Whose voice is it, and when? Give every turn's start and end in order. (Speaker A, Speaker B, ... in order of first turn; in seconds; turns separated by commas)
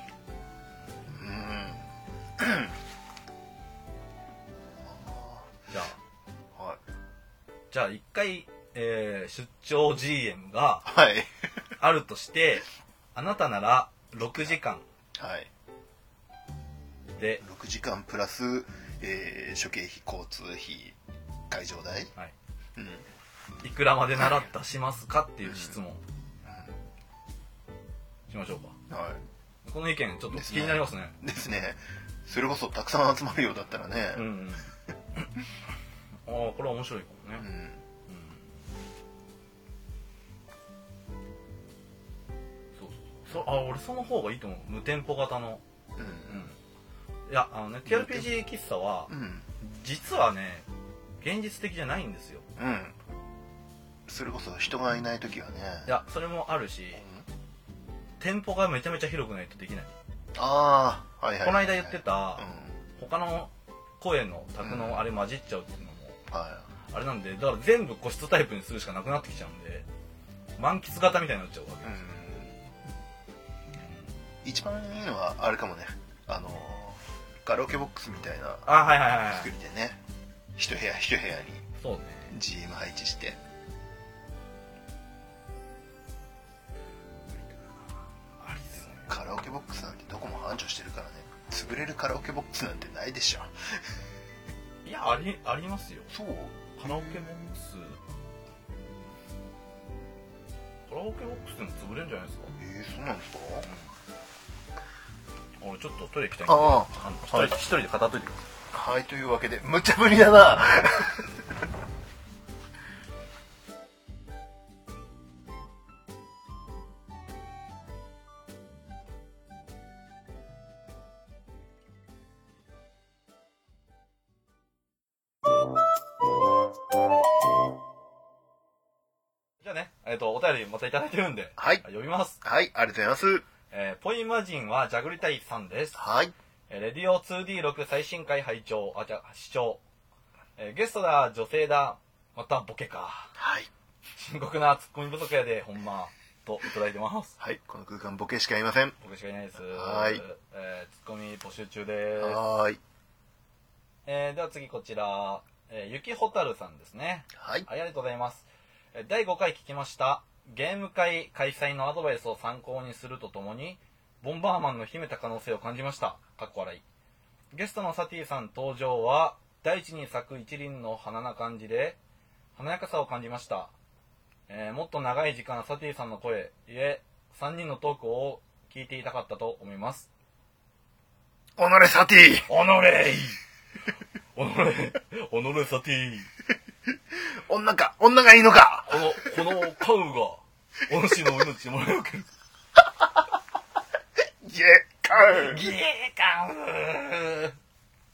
Speaker A: 1.1-2.7, Speaker A: 4.8-5.5, Speaker B: 5.7-6.0, Speaker A: 6.5-6.8, Speaker B: 7.7-10.9, Speaker A: 10.8-11.3, Speaker B: 11.8-14.8, Speaker A: 15.2-15.5, Speaker B: 17.2-17.4, Speaker A: 17.4-21.0, Speaker A: 21.5-22.1, Speaker A: 22.8-23.0, Speaker B: 23.6-26.0, Speaker A: 25.4-25.7, Speaker A: 26.4-26.7, Speaker B: 28.3-28.8, Speaker A: 28.9-29.2, Speaker B: 29.6-31.2, Speaker A: 30.3-34.3, Speaker B: 34.1-35.2, Speaker B: 36.2-37.5, Speaker A: 37.4-37.8, Speaker B: 38.1-38.5, Speaker B: 42.8-45.6, Speaker A: 46.0-46.4, Speaker B: 46.2-46.5, Speaker B: 47.3-50.7, Speaker A: 47.9-48.3, Speaker A: 49.1-49.5, Speaker B: 51.2-52.5, Speaker A: 52.6-53.0, Speaker A: 54.1-55.9, Speaker B: 55.9-57.0, Speaker A: 57.0-57.2, Speaker B: 58.2-59.9, Speaker A: 60.3-62.8, Speaker B: 61.4-66.2, Speaker A: 64.6-65.0, Speaker A: 66.3-66.7, Speaker B: 66.9-69.8, Speaker B: 70.6-72.1, Speaker A: 71.8-72.6, Speaker B: 73.8-74.0, Speaker A: 74.4-78.7, Speaker B: 78.7-79.5, Speaker A: 79.2-80.0, Speaker A: 80.5-81.7, Speaker B: 81.8-82.3, Speaker A: 82.3-83.4, Speaker B: 88.4-89.1, Speaker A: 88.9-93.5, Speaker B: 94.8-96.1, Speaker A: 96.1-97.3, Speaker B: 96.8-98.0, Speaker B: 100.9-102.5, Speaker A: 102.6-103.7, Speaker B: 105.6-108.5, Speaker A: 106.5-107.6, Speaker A: 108.7-111.3, Speaker B: 129.6-132.4, Speaker A: 131.6-131.8, Speaker A: 132.4-133.4, Speaker B: 133.7-136.0, Speaker A: 135.9-136.3, Speaker B: 136.7-139.8, Speaker B: 140.6-143.3, Speaker A: 143.4-143.7, Speaker B: 144.2-147.3, Speaker A: 147.4-148.9, Speaker B: 149.0-152.4, Speaker A: 149.7-150.2, Speaker A: 152.2-152.8, Speaker B: 154.1-166.8, Speaker A: 157.3-157.7, Speaker B: 167.5-172.0, Speaker B: 172.6-173.7, Speaker B: 174.5-180.1, Speaker A: 181.6-182.5, Speaker B: 182.5-183.4, Speaker B: 184.3-186.3, Speaker A: 187.1-189.3, Speaker B: 188.9-192.3, Speaker A: 194.4-195.6, Speaker B: 195.2-197.6